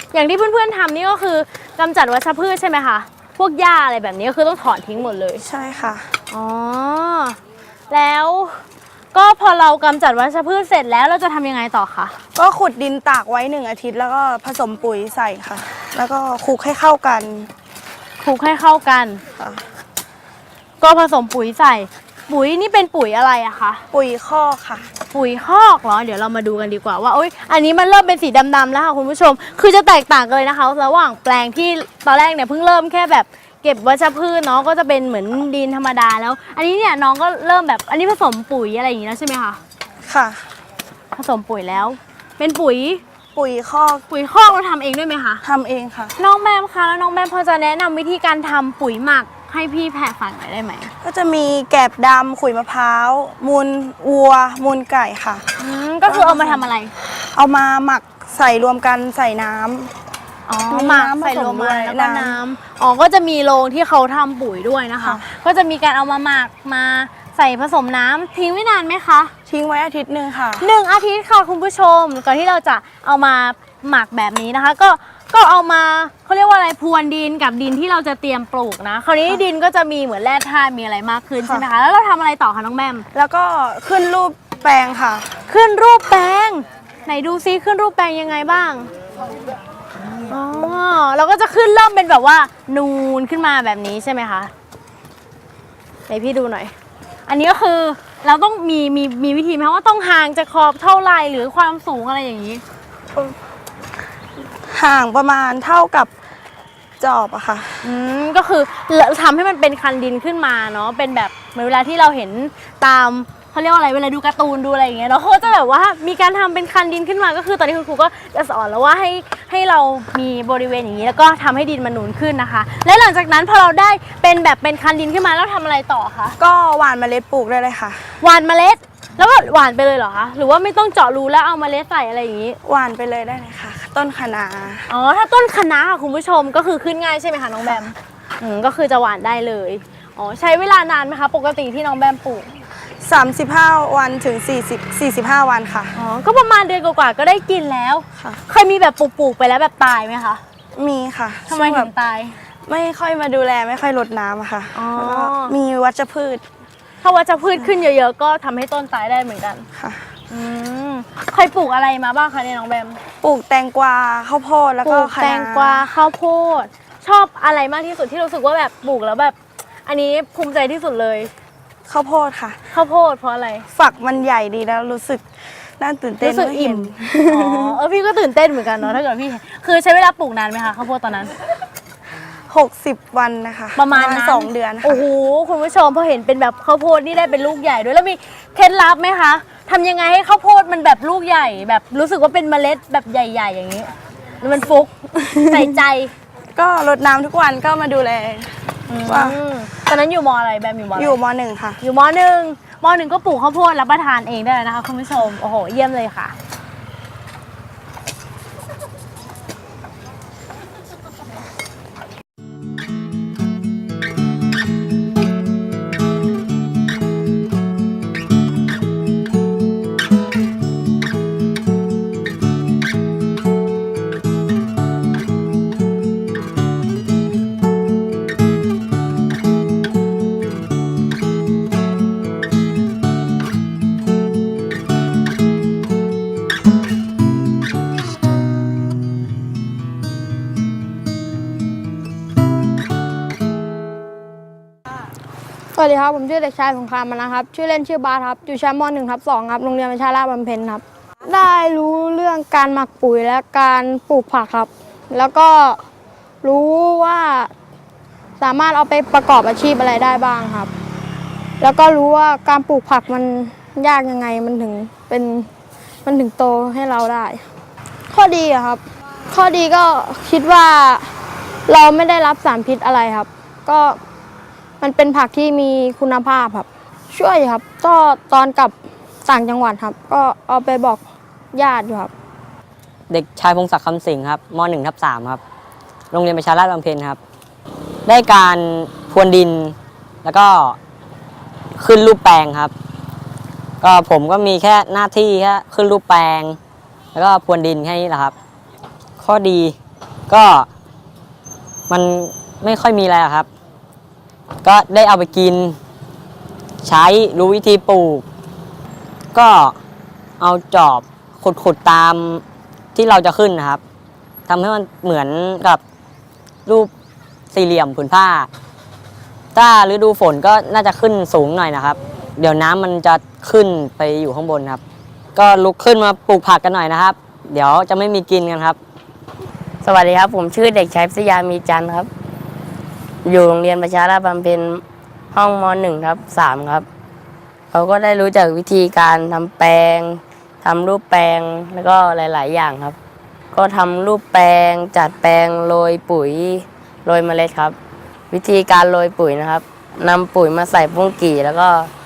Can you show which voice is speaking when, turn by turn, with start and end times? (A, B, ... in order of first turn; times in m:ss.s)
0:00.1-0:05.4 A
0:05.4-0:06.1 B
0:06.3-0:07.4 A
0:07.9-0:12.1 A
0:12.3-0:17.5 B
0:18.2-0:19.2 A
0:19.4-0:19.7 B
0:20.8-0:23.8 A
0:23.9-0:24.8 B
0:25.1-0:39.6 A
0:40.1-0:40.4 B
0:41.1-0:43.0 A
0:43.3-0:44.0 B
0:44.1-0:45.4 A
0:45.4-0:46.1 B
0:46.2-0:50.9 A
0:51.0-0:55.4 B
0:55.6-0:56.9 A
0:56.1-0:56.7 B
0:57.3-0:59.9 B
1:00.4-1:09.3 A
1:00.7-1:02.4 B
1:09.4-1:10.6 B
1:10.6-1:23.0 A
1:23.1-1:25.3 B
1:25.5-1:28.9 A
1:30.1-1:34.5 A
1:36.1-1:36.7 A
1:37.3-1:42.6 A
1:44.7-1:46.1 B
1:47.0-1:47.8 B
1:47.8-2:06.4 A
2:06.4-2:08.2 B
2:08.2-2:12.6 A
2:12.6-2:14.9 B
2:14.9-2:22.5 A
2:23.0-2:25.9 B
2:25.9-2:30.4 A
2:30.8-2:31.9 B
2:31.5-2:32.4 A
2:32.6-2:36.4 B
2:34.7-2:35.6 A
2:37.0-2:39.6 A
2:39.7-2:40.0 B
2:40.3-2:43.0 A
2:43.2-2:45.9 B
2:44.8-2:51.3 A
2:51.9-2:52.6 B
2:52.7-2:53.6 A
2:53.7-2:55.2 B
2:55.8-2:57.7 B
2:56.2-3:01.3 A
3:02.5-3:05.0 B
3:03.8-3:13.9 A
3:14.4-3:16.1 A
3:16.6-3:18.5 B
3:18.9-3:21.2 A
3:19.0-3:19.4 B
3:21.0-3:21.8 B
3:21.8-3:26.3 A
4:05.8-4:15.8 C
4:16.4-4:17.5 C
4:18.4-4:20.7 C
4:21.6-4:25.5 C
4:26.0-4:27.4 C
4:28.1-4:28.8 C
4:29.3-4:31.1 C
4:31.7-4:34.0 C
4:34.8-4:38.7 C
4:39.3-4:41.0 C
4:41.5-4:42.1 C
4:43.1-4:45.4 D
4:46.1-4:47.2 D
4:48.0-4:50.8 D
4:51.8-4:52.7 D
4:53.8-4:56.6 D
4:57.1-4:58.3 D
4:59.2-4:59.8 D
5:00.3-5:00.7 D
5:01.9-5:03.5 D
5:04.6-5:05.8 D
5:06.8-5:08.2 D
5:09.3-5:09.8 D
5:10.4-5:12.4 D
5:13.0-5:13.8 D
5:14.5-5:15.8 D
5:17.5-5:18.5 D
5:19.5-5:24.8 D
5:25.3-5:28.8 D
5:29.8-5:32.1 E
5:33.2-5:36.8 E
5:37.7-5:43.0 E
5:43.5-5:47.8 E
5:48.3-5:51.9 E